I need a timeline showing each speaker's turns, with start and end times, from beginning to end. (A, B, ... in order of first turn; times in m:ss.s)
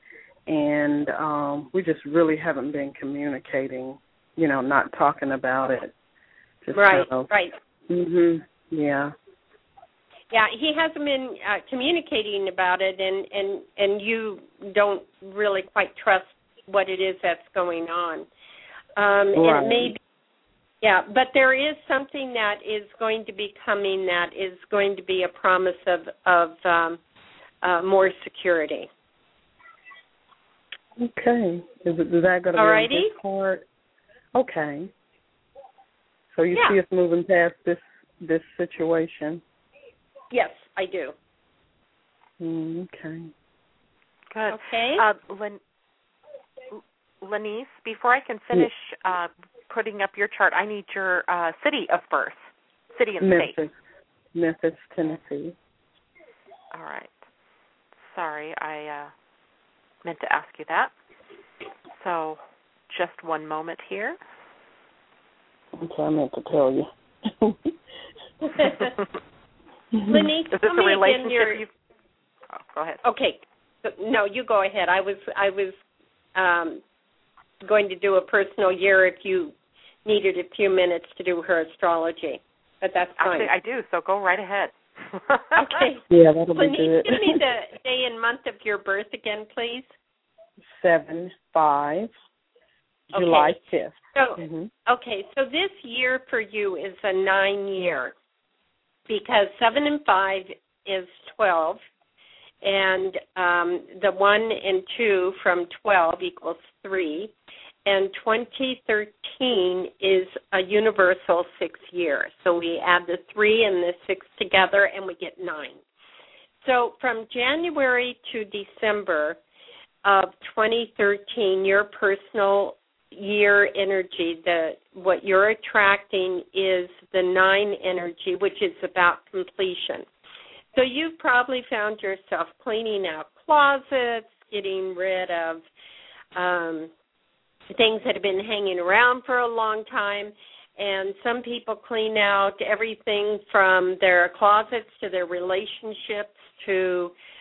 0:00.4-0:05.9 A
0:06.6-0:07.3 A
0:06.7-0:07.5 B
0:07.9-0:09.1 A
0:10.3-0:18.3 B
0:19.0-0:20.0 B
0:19.3-0:19.9 A
0:20.8-0:27.0 B
0:27.6-0:28.9 B
0:31.0-0:33.6 A
0:32.6-0:33.1 B
0:34.3-0:34.9 A
0:36.3-0:39.4 A
0:40.3-0:41.1 B
0:42.4-0:43.3 A
0:44.3-0:45.6 C
0:44.5-0:45.0 B
0:46.7-0:53.6 C
0:53.2-0:53.7 A
0:54.3-0:55.6 A
0:56.7-0:57.1 C
0:58.0-0:59.1 C
1:00.0-1:00.9 C
1:02.0-1:04.2 C
1:05.8-1:07.7 A
1:08.5-1:08.9 B
1:09.9-1:10.3 A
1:10.1-1:11.6 B
1:10.5-1:11.7 C
1:12.5-1:13.0 C
1:13.0-1:15.8 B
1:16.3-1:16.8 B
1:17.6-1:19.5 B
1:20.0-1:23.5 B
1:23.2-1:25.8 C
1:25.6-1:26.0 B
1:26.1-1:27.4 A
1:26.6-1:29.9 B
1:30.6-1:32.1 A
1:33.1-1:33.6 B
1:33.1-1:34.7 A
1:34.1-1:38.1 B
1:39.1-1:41.8 B
1:42.6-1:47.3 B
1:47.8-1:55.8 B
1:56.6-1:59.4 B
2:00.0-2:10.1 B
2:10.7-2:15.6 B
2:16.3-2:16.9 B
2:17.7-2:27.1 B